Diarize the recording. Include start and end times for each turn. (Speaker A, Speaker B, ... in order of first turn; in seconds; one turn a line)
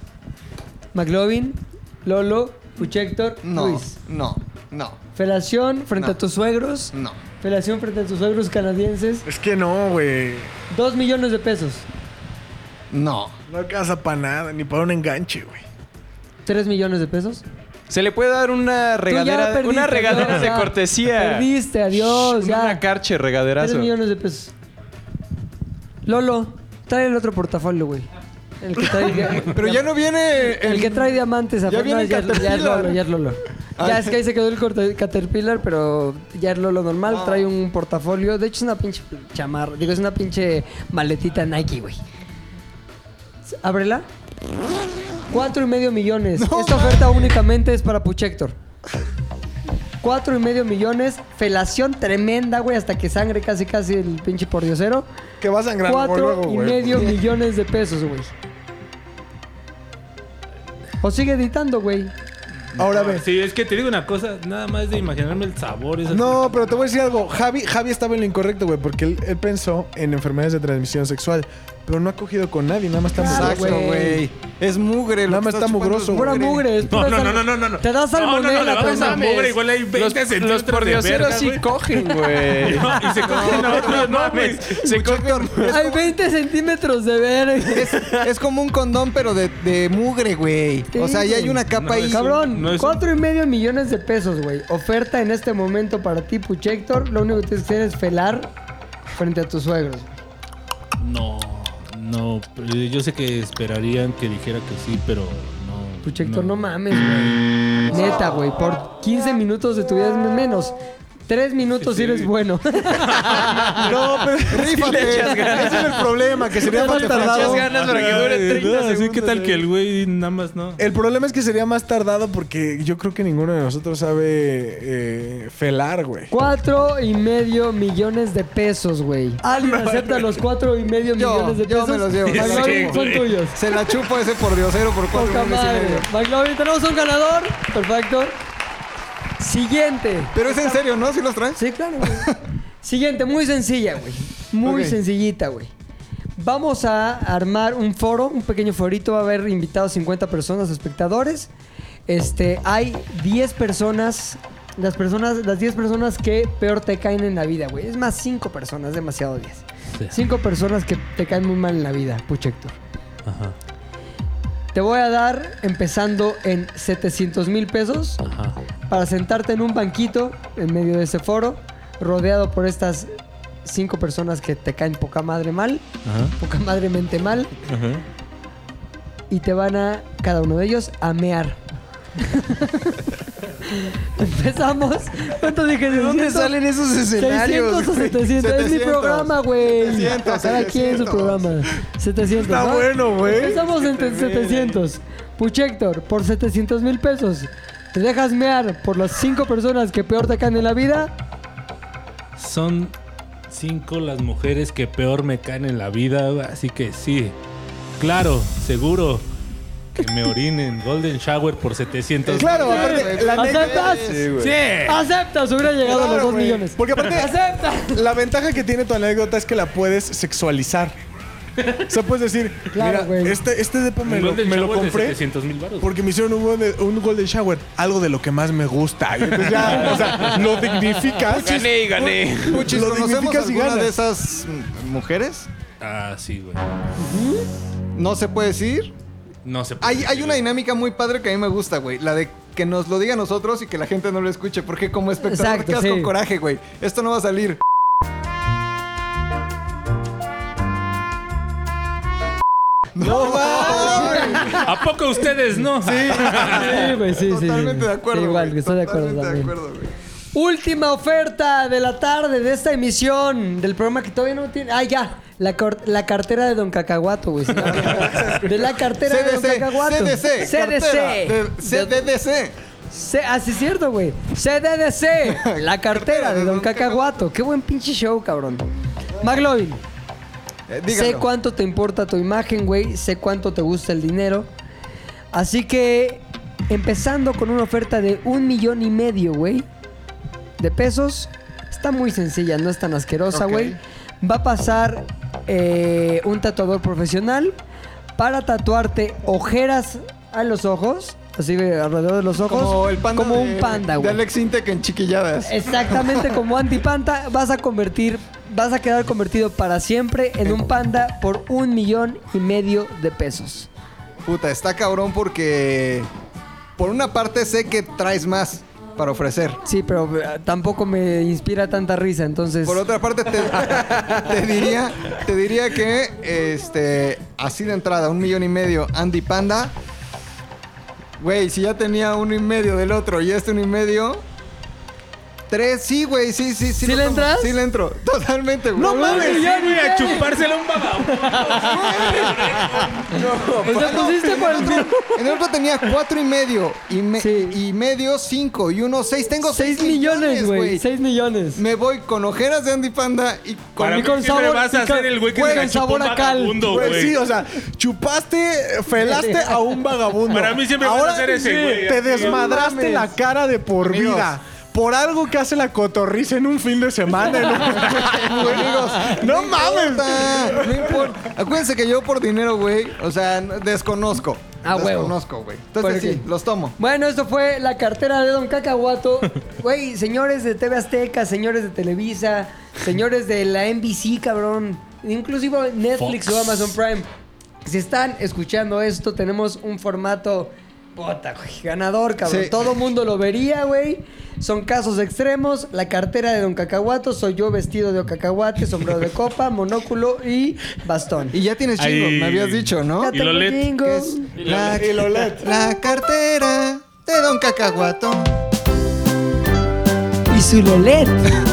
Speaker A: 0.9-3.9
Speaker B: 3.4-5.0
Speaker A: 5.1-9.2
Speaker B: 6.9-7.2
Speaker C: 9.2-10.5
Speaker A: 10.7-11.8
Speaker B: 12.9-13.4
Speaker C: 13.5-15.6
Speaker A: 16.4-17.4
Speaker D: 17.9-23.9
Speaker A: 19.1-22.8
Speaker A: 23.6-24.5
Speaker A: 26.1-28.1
Speaker A: 28.6-29.8
Speaker B: 29.3-33.0
Speaker A: 30.4-42.0
Speaker B: 33.8-34.2
Speaker B: 37.1-37.5
Speaker A: 43.5-44.1
Speaker A: 45.3-48.6
Speaker B: 46.4-47.3
Speaker A: 50.0-55.0
Speaker C: 55.4-57.2
Speaker A: 55.8-58.3
Speaker A: 61.0-62.1
Speaker C: 62.8-63.2
Speaker E: 62.8-66.7
Speaker C: 66.1-73.8
Speaker A: 73.1-74.2
Speaker B: 73.2-76.7
Speaker C: 75.3-76.4
Speaker A: 76.1-79.6
Speaker E: 76.8-84.9
Speaker D: 78.8-85.7
Speaker B: 83.2-84.2
Speaker B: 84.8-86.1
Speaker A: 85.7-87.9
Speaker B: 87.7-92.5
Speaker A: 90.9-98.5
Speaker E: 91.7-93.0
Speaker A: 99.2-100.2
Speaker E: 101.0-106.6
Speaker A: 106.0-110.8
Speaker E: 107.8-108.2
Speaker A: 111.3-113.4
Speaker E: 111.8-112.3
Speaker E: 113.1-113.8
Speaker D: 113.2-114.0
Speaker C: 113.8-115.0
Speaker B: 114.5-115.9
Speaker D: 114.6-119.6
Speaker C: 115.5-117.7
Speaker A: 116.6-117.7
Speaker E: 117.5-120.8
Speaker C: 120.8-126.3
Speaker A: 126.3-133.6
Speaker C: 129.5-130.4
Speaker B: 131.1-132.9
Speaker E: 132.2-133.3
Speaker C: 132.5-132.9
Speaker B: 133.6-136.1
Speaker A: 135.1-138.3
Speaker A: 139.4-140.8
Speaker B: 140.3-142.4
Speaker A: 141.5-145.7
Speaker B: 144.6-145.0
Speaker A: 146.4-151.5
Speaker A: 152.1-162.8
Speaker E: 163.2-163.6
Speaker A: 164.7-168.2
Speaker E: 168.2-168.6
Speaker A: 168.9-173.1
Speaker A: 173.6-175.8
Speaker E: 176.0-176.3
Speaker A: 176.4-177.5
Speaker A: 179.3-181.6
Speaker A: 182.2-186.6
Speaker D: 185.8-188.3
Speaker A: 187.1-201.1
Speaker B: 188.3-191.6
Speaker C: 192.3-193.6
Speaker D: 193.2-194.8
Speaker E: 202.4-202.9
Speaker E: 203.5-207.3
Speaker E: 208.0-209.2
Speaker E: 210.0-213.0
Speaker B: 212.2-214.3
Speaker C: 212.3-213.9
Speaker A: 212.7-214.1
Speaker D: 214.0-214.6
Speaker E: 214.4-215.0
Speaker A: 214.8-218.0
Speaker C: 215.8-217.3
Speaker C: 217.9-220.9
Speaker C: 221.9-225.2
Speaker A: 222.7-223.4
Speaker E: 224.0-225.9
Speaker C: 225.8-231.7
Speaker E: 229.5-229.9
Speaker D: 231.2-232.7
Speaker B: 231.2-235.5
Speaker C: 232.6-234.0
Speaker E: 235.8-236.6
Speaker A: 237.0-237.5
Speaker B: 237.9-238.9
Speaker E: 239.4-240.5
Speaker B: 239.8-247.6
Speaker A: 245.2-246.1
Speaker B: 252.9-254.6
Speaker C: 253.0-254.3
Speaker A: 253.4-254.6
Speaker E: 254.5-256.9
Speaker B: 255.7-259.9
Speaker A: 256.3-259.5
Speaker A: 260.3-272.0
Speaker B: 267.6-272.5
Speaker C: 268.1-268.5
Speaker A: 272.9-279.8
Speaker B: 275.2-277.2
Speaker B: 280.7-281.3
Speaker A: 280.9-284.5
Speaker A: 285.3-289.7
Speaker A: 290.6-297.6
Speaker B: 293.3-293.8
Speaker A: 298.2-304.2
Speaker B: 302.4-306.4
Speaker A: 305.4-313.7
Speaker B: 314.2-316.1
Speaker B: 316.8-319.6
Speaker A: 319.6-322.8
Speaker B: 322.6-329.7
Speaker B: 331.2-334.2
Speaker B: 335.5-339.4
Speaker A: 336.8-337.6
Speaker C: 338.8-340.2
Speaker A: 338.8-340.4
Speaker E: 339.4-343.0
Speaker A: 341.1-342.1
Speaker B: 341.6-342.7
Speaker D: 343.1-344.1
Speaker A: 343.6-345.0
Speaker B: 343.6-350.8
Speaker A: 347.2-347.6
Speaker A: 349.5-351.6
Speaker B: 351.6-354.4
Speaker E: 353.8-357.2
Speaker A: 353.9-357.0
Speaker C: 355.3-355.7
Speaker C: 356.6-370.9
Speaker A: 358.9-359.6
Speaker E: 360.3-362.6
Speaker A: 362.1-363.1
Speaker B: 363.8-364.3
Speaker B: 367.8-376.8
Speaker A: 374.6-375.2
Speaker A: 375.8-376.2
Speaker A: 376.8-387.1
Speaker E: 386.0-386.7
Speaker A: 387.6-401.4
Speaker B: 392.2-392.6
Speaker B: 401.3-403.2
Speaker E: 401.8-403.7
Speaker A: 403.0-404.3
Speaker B: 403.8-408.3
Speaker C: 404.5-405.5
Speaker A: 410.3-411.4